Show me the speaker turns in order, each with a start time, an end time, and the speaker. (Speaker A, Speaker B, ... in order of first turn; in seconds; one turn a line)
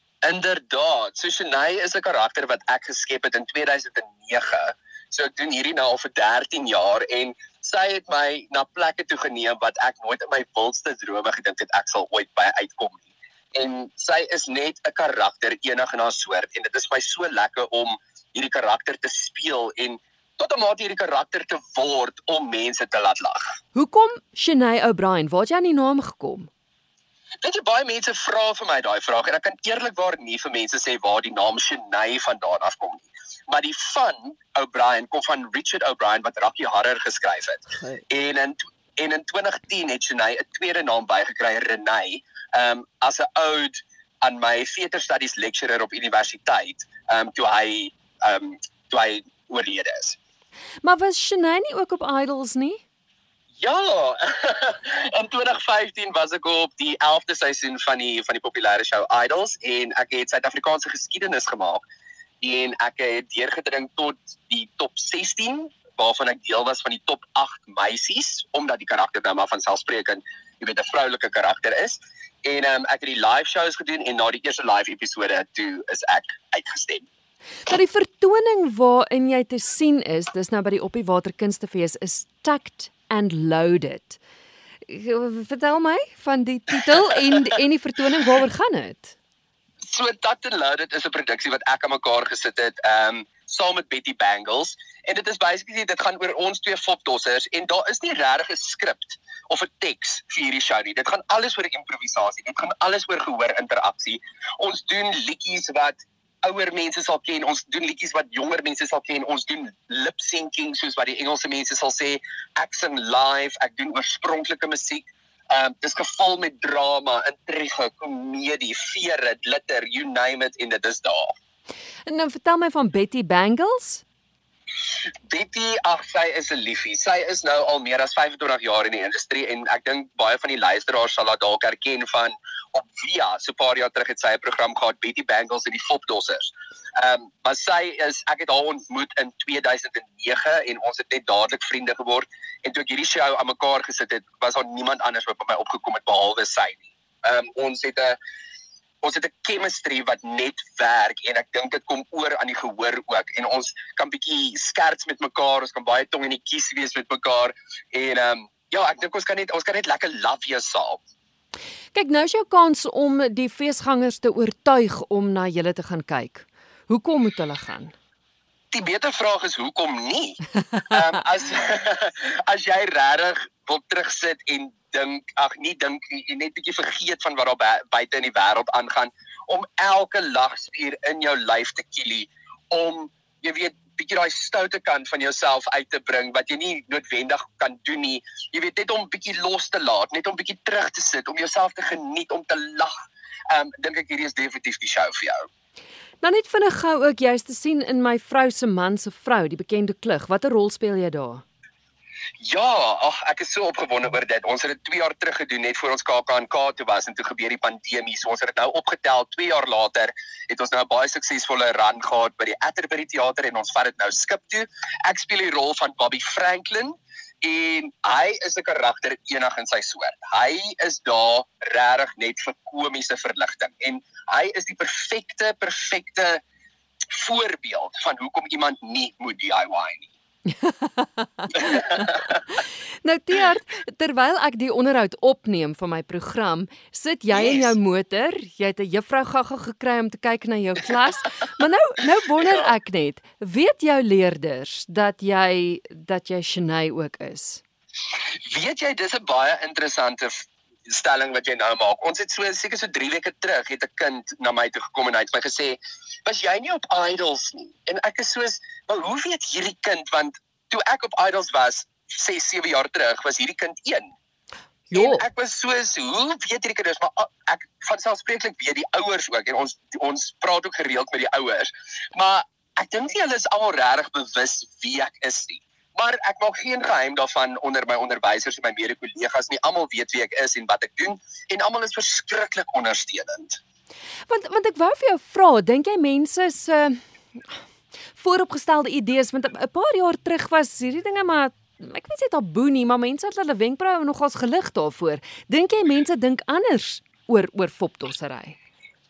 Speaker A: 0.2-23.5
Speaker B: 23.7-26.5
Speaker A: 27.4-50.2
Speaker B: 37.7-38.0
Speaker B: 50.8-52.8
Speaker A: 53.6-61.8
Speaker A: 62.4-77.0
Speaker B: 77.7-84.2
Speaker B: 84.8-89.1
Speaker A: 89.8-121.3
Speaker B: 122.0-124.0
Speaker A: 125.3-148.2
Speaker A: 149.0-161.0
Speaker B: 161.9-167.9
Speaker A: 168.7-192.9
Speaker A: 193.5-195.5
Speaker B: 196.2-201.4
Speaker A: 202.4-226.4
Speaker A: 227.1-230.1
Speaker B: 230.6-247.6
Speaker A: 237.3-237.7
Speaker A: 248.4-264.1
Speaker B: 264.9-265.2
Speaker A: 264.9-283.6
Speaker B: 284.3-287.0
Speaker B: 288.2-298.6